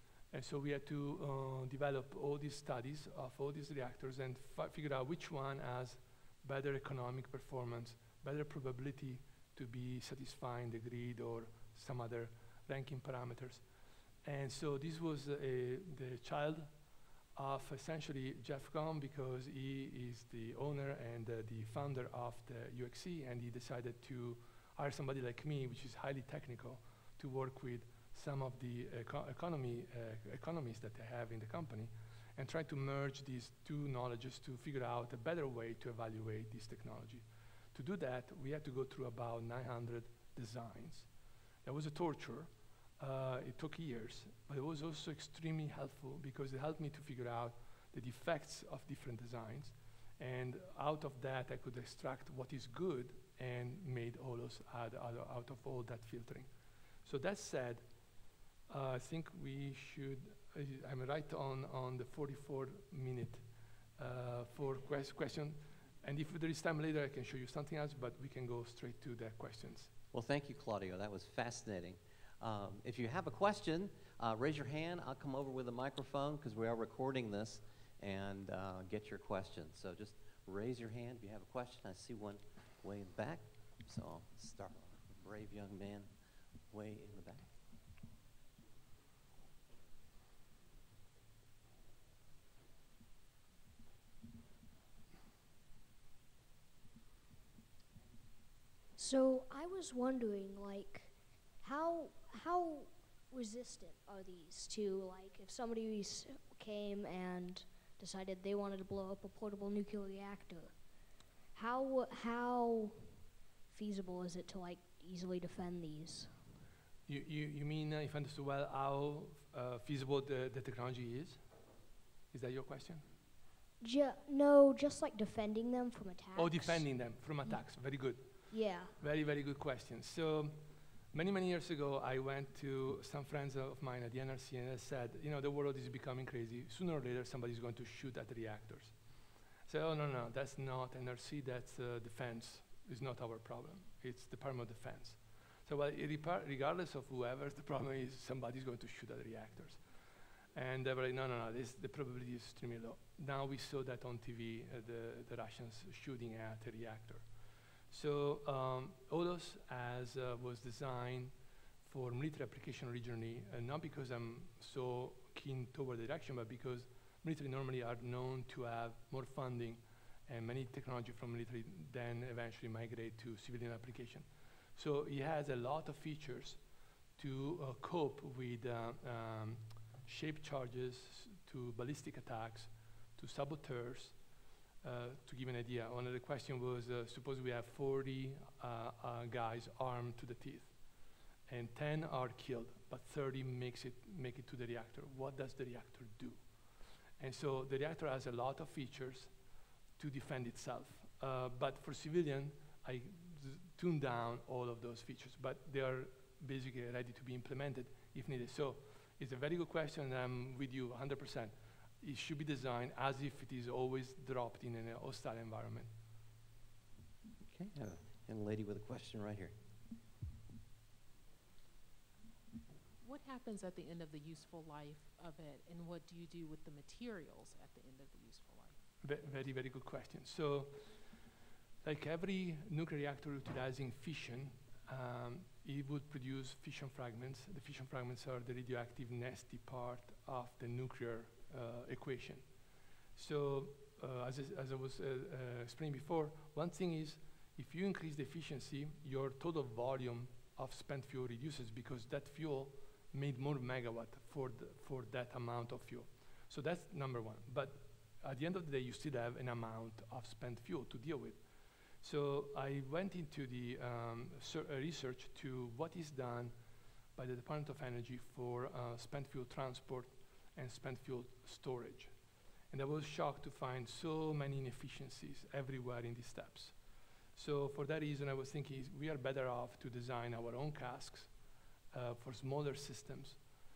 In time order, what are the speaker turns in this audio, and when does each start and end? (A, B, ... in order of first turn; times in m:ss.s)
0:00.3-0:13.6 A
0:14.2-0:16.7 A
0:17.4-0:41.1 A
0:41.6-0:56.5 A
0:57.0-0:57.8 A
0:58.7-1:03.4 A
1:04.0-1:09.9 A
1:10.1-1:26.1 B
1:26.7-1:27.5 B
1:39.0-1:50.8 C
1:51.5-1:56.3 C
1:57.1-2:01.4 A
2:02.3-2:03.1 A
2:03.8-2:06.9 C
2:06.4-2:18.9 A
2:08.5-2:09.0 C
2:19.7-2:29.8 A
2:30.5-2:37.2 A
2:37.9-2:41.3 A
2:41.8-2:56.6 A
2:57.2-3:04.2 A
3:04.8-3:10.7 A
3:11.5-3:16.4 A
3:17.2-3:19.3 A
3:20.0-3:35.9 A
3:37.5-3:39.6 B
3:43.0-3:48.8 D
3:49.0-3:51.2 A
3:51.8-4:02.4 A
4:03.2-4:21.4 A
4:22.0-4:26.6 A
4:27.2-4:32.1 A
4:32.7-4:36.8 A
4:37.4-4:41.3 A
4:41.9-4:43.4 A